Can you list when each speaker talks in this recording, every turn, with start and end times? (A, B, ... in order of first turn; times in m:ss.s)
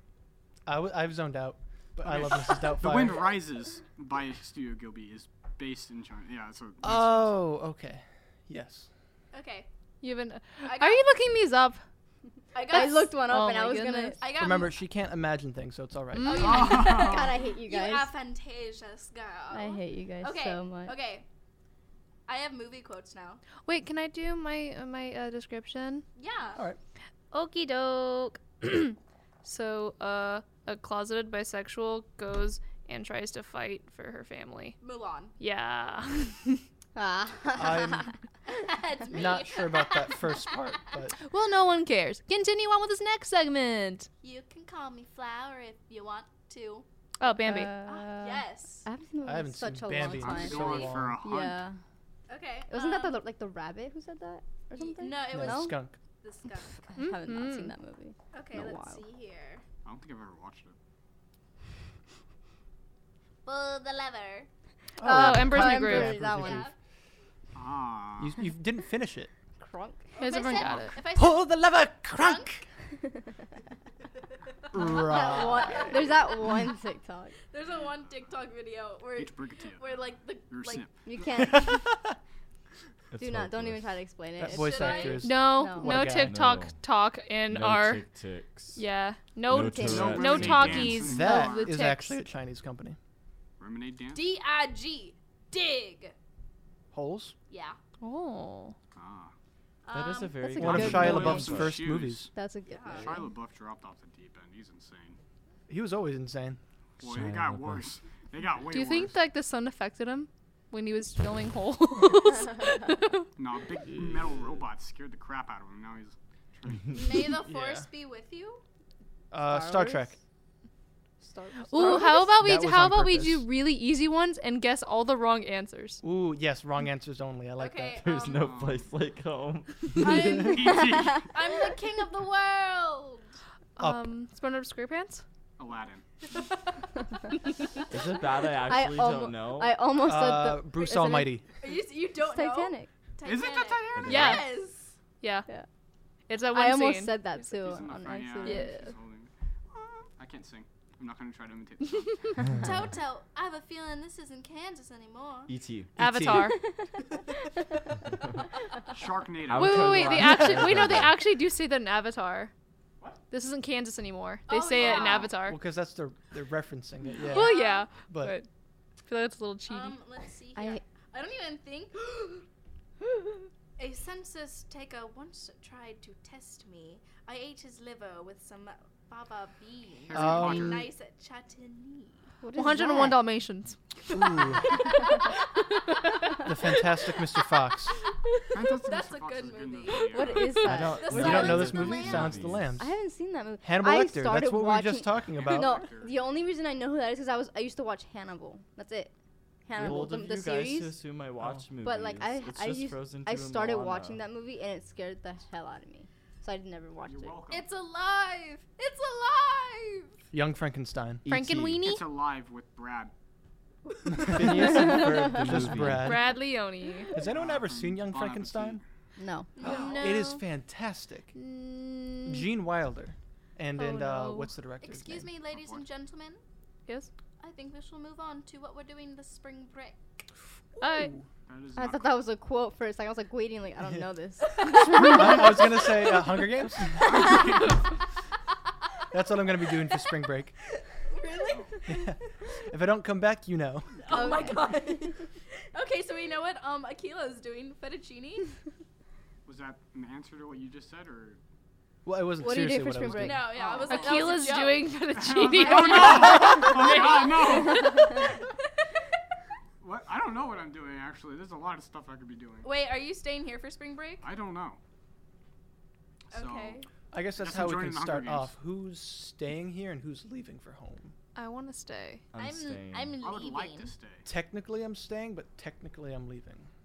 0:00.7-0:03.4 A
0:02.0-0:07.4 B
0:06.8-0:08.9 A
0:09.3-0:09.7 C
0:10.0-0:11.8 D
0:10.6-0:11.1 C
0:12.5-0:13.4 C
0:12.6-0:14.2 E
0:12.7-0:14.2 D
0:14.1-0:14.8 C
0:14.3-0:16.6 A
0:16.1-0:16.7 D
0:16.2-0:21.3 C
0:16.4-0:17.3 B
0:16.5-0:18.1 E
0:19.5-0:21.0 E
0:22.3-0:23.4 C
0:23.6-0:26.0 D
0:26.2-0:26.6 C
0:27.3-0:34.8 D
0:34.8-0:35.3 C
0:35.4-0:36.6 D
0:37.0-0:38.1 E
0:37.6-0:38.1 A
0:38.5-0:40.7 C
0:39.1-0:41.2 A
0:41.2-0:44.1 D
0:44.2-0:46.9 C
0:47.2-0:47.7 D
0:47.3-0:51.8 E
0:47.8-0:48.9 C
0:49.2-0:51.2 A
0:50.1-0:51.6 B
0:50.5-0:50.9 C
0:52.3-0:53.2 C
0:52.7-0:55.8 E
0:54.7-0:56.9 C
0:55.3-0:56.0 A
0:56.8-0:59.0 E
0:57.0-0:57.7 D
0:58.3-0:59.6 C
0:59.8-1:00.8 B
1:03.4-1:04.5 C
1:05.0-1:06.7 A
1:05.0-1:06.7 E
1:05.0-1:06.2 D
1:06.3-1:06.7 C
1:07.5-1:08.4 B
1:08.2-1:09.3 A
1:09.6-1:10.1 E
1:10.1-1:12.6 C
1:10.2-1:11.0 D
1:10.6-1:10.9 B
1:11.2-1:12.6 A
1:14.7-1:16.8 C
1:14.7-1:16.0 A
1:14.9-1:17.4 E
1:17.5-1:20.9 C
1:19.2-1:21.0 B
1:21.0-1:21.9 E
1:21.3-1:22.2 A
1:23.1-1:24.0 F
1:23.2-1:26.1 E
1:24.4-1:26.4 A
1:24.5-1:25.3 C
1:25.2-1:28.0 D
1:26.1-1:26.8 F
1:27.5-1:28.8 F
1:28.8-1:32.2 D
1:29.5-1:31.1 F
1:29.5-1:30.4 E
1:29.8-1:31.7 B
1:31.0-1:33.0 A
1:33.6-1:34.2 B
1:34.1-1:36.2 C
1:36.9-1:37.4 A
1:37.5-1:37.8 C
1:38.0-1:38.8 D
1:39.0-1:39.3 B
1:39.8-1:40.8 C
1:39.9-1:41.8 F
1:40.4-1:41.7 E
1:40.6-1:42.3 A
1:40.7-1:42.3 B
1:42.3-1:43.2 E
1:42.7-1:43.3 C
1:42.9-1:45.2 B
1:45.7-1:46.6 A
1:47.0-1:49.2 B
1:47.0-1:47.8 F
1:48.7-1:53.3 D
1:53.4-1:57.3 B
1:56.9-1:58.6 C
1:57.5-1:57.8 A
1:59.3-2:00.2 A
1:59.4-2:00.1 E
2:01.2-2:02.3 E
2:01.7-2:06.0 D
2:02.3-2:03.4 A
2:06.0-2:08.0 A
2:07.6-2:08.7 C
2:08.0-2:10.4 F
2:08.4-2:08.9 B
2:10.0-2:13.4 C
2:10.0-2:11.4 B
2:13.8-2:15.2 D
2:13.8-2:14.1 A
2:15.6-2:16.0 B
2:17.9-2:19.8 F
2:18.6-2:21.3 E
2:20.0-2:21.6 A
2:20.8-2:25.0 C
2:22.1-2:22.9 E
2:23.2-2:24.4 B
2:24.0-2:24.4 F
2:24.1-2:24.5 D
2:25.2-2:25.5 D
2:26.3-2:27.2 D
2:26.5-2:28.7 E
2:27.6-2:32.6 B
2:27.9-2:28.9 C
2:32.5-2:35.5 C
2:35.5-2:35.9 F
2:36.0-2:36.6 A
2:36.0-2:36.6 D
2:36.3-2:37.0 E
2:38.9-2:40.1 B
2:39.4-2:41.2 F
2:39.6-2:42.5 D
2:40.2-2:40.9 A
2:43.3-2:45.6 D
2:44.5-2:45.4 C
2:45.4-2:48.4 A
2:47.0-2:47.9 C
2:47.3-2:48.5 D
2:49.1-2:50.0 D
2:49.7-2:52.5 C
2:50.6-2:50.8 E
2:53.8-3:02.3 C
3:00.1-3:00.9 B
3:00.1-3:00.8 A
3:02.4-3:03.2 E
3:02.6-3:04.4 D
3:04.2-3:04.6 A
3:04.6-3:06.0 C
3:05.9-3:06.3 D
3:06.4-3:08.0 A
3:06.7-3:12.4 C
3:08.5-3:10.7 B
3:09.9-3:11.6 E
3:10.6-3:12.8 F
3:10.7-3:12.9 A
3:12.0-3:12.3 B
3:12.8-3:19.1 E
3:13.6-3:15.9 A
3:15.3-3:16.2 B
3:19.7-3:21.0 E
3:19.8-3:24.2 F
3:19.8-3:20.1 A
3:21.8-3:27.4 E
3:27.0-3:27.7 B
3:27.5-3:30.2 C
3:30.3-3:31.3 A
3:31.2-3:31.8 F
3:31.3-3:32.0 D
3:31.8-3:33.1 B
3:34.1-3:36.4 A
3:34.3-3:36.2 F
3:34.6-3:35.8 E
3:36.0-3:37.1 D
3:37.1-3:38.8 A
3:37.3-3:38.8 B
3:39.2-3:40.0 E
3:39.6-3:40.5 C
3:39.6-3:41.3 A
3:41.4-3:42.5 D
3:42.3-3:45.3 A
3:43.8-3:44.5 D
3:44.8-3:46.4 C
3:45.5-3:45.8 B
3:47.4-3:50.2 C
3:50.8-3:51.2 D
3:51.5-3:52.2 B
3:51.8-3:55.7 E
3:54.4-3:56.7 C
3:54.9-3:55.8 B
3:55.0-3:57.2 A
3:57.0-3:57.8 B
3:59.1-4:00.6 A
4:01.1-4:02.0 C
4:01.4-4:01.8 B
4:01.9-4:04.0 A
4:04.0-4:08.5 C
4:04.1-4:05.2 E
4:09.4-4:11.4 B
4:12.0-4:13.6 A
4:12.4-4:13.6 E
4:13.1-4:14.9 C
4:13.5-4:14.4 B
4:13.9-4:18.1 D
4:15.1-4:18.4 B
4:17.6-4:18.4 C
4:19.8-4:22.7 B
4:22.6-4:24.3 C
4:24.2-4:24.8 B
4:26.3-4:26.9 C
4:26.3-4:26.8 B
4:27.1-4:31.1 A
4:27.4-4:28.6 B
4:31.4-4:32.2 D
4:32.3-4:33.2 F
4:32.4-4:33.9 C
4:33.2-4:34.3 B
4:34.2-4:36.7 A